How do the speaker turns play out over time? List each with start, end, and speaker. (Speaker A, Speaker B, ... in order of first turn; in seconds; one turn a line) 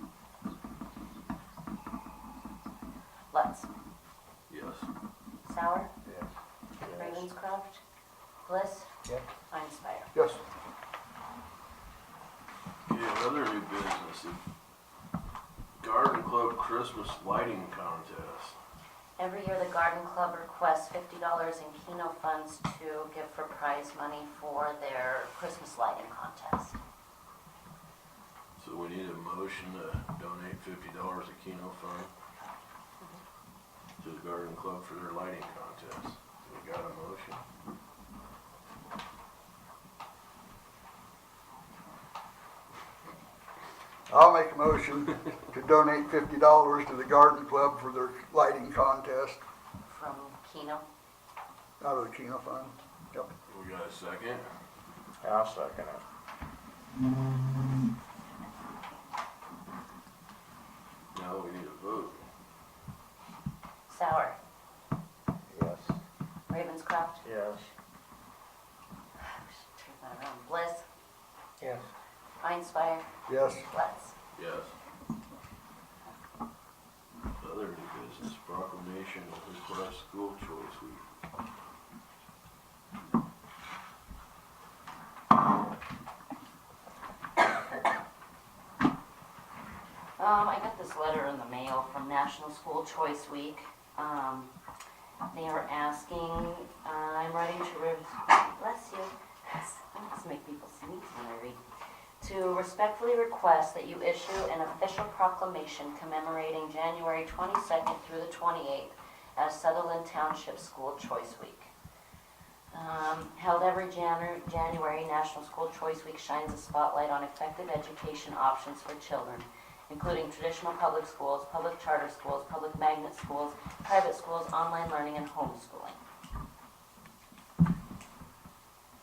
Speaker A: 3.3-3.7
Speaker B: 4.5-4.9
Speaker A: 5.4-5.9
Speaker A: 6.8-7.8
Speaker C: 6.9-7.2
Speaker A: 8.4-8.9
Speaker A: 9.5-10.1
Speaker D: 10.1-10.4
Speaker B: 12.9-14.4
Speaker B: 15.8-18.6
Speaker A: 19.2-26.8
Speaker B: 28.6-32.1
Speaker B: 34.0-37.4
Speaker D: 44.1-49.4
Speaker A: 49.9-50.8
Speaker D: 51.8-53.3
Speaker B: 53.5-54.4
Speaker C: 55.2-56.0
Speaker B: 61.1-62.2
Speaker A: 63.9-64.4
Speaker C: 65.5-66.0
Speaker A: 66.5-67.2
Speaker C: 67.2-67.7
Speaker A: 69.2-70.8
Speaker C: 71.6-71.8
Speaker A: 72.4-74.1
Speaker D: 73.3-73.7
Speaker B: 74.3-74.7
Speaker B: 77.4-81.0
Speaker A: 90.2-94.5
Speaker A: 95.3-101.6
Speaker A: 102.2-111.7
Speaker A: 112.7-126.0